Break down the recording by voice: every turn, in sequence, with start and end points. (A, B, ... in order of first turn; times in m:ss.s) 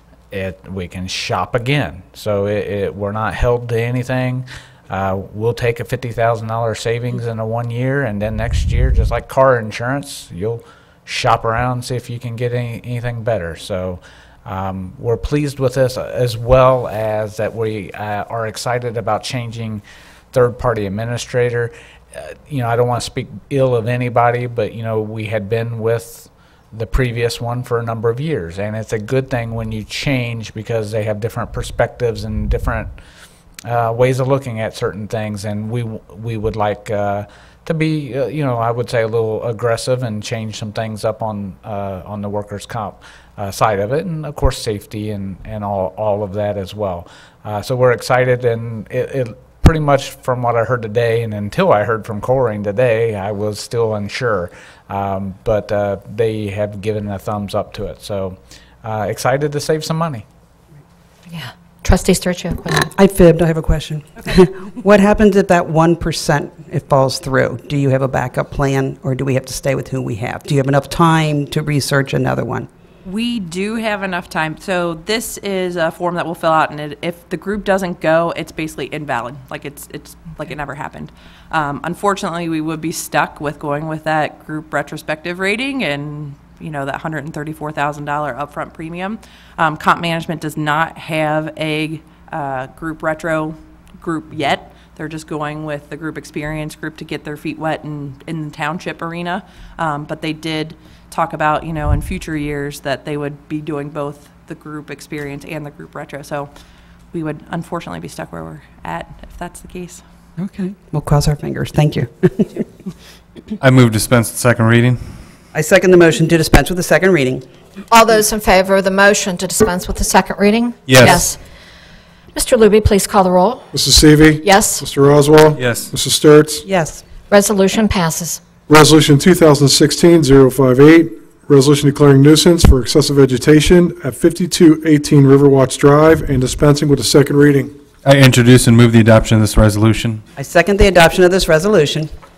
0:00.3-0:32.9 A
0:33.6-1:00.2 A
1:01.3-1:02.9 B
1:02.9-1:12.7 C
1:13.0-1:46.5 D
1:47.1-1:50.0 D
1:50.4-1:52.6 C
1:53.6-1:55.0 E
1:55.5-1:57.4 C
1:57.9-2:01.4 B
2:00.9-2:01.3 E
2:02.3-2:03.6 B
2:03.7-2:06.6 F
2:04.4-2:04.8 B
2:05.6-2:05.9 E
2:06.6-2:07.0 C
2:07.3-2:08.4 B
2:08.7-2:17.7 F
2:18.0-2:20.2 E
2:20.4-2:22.1 C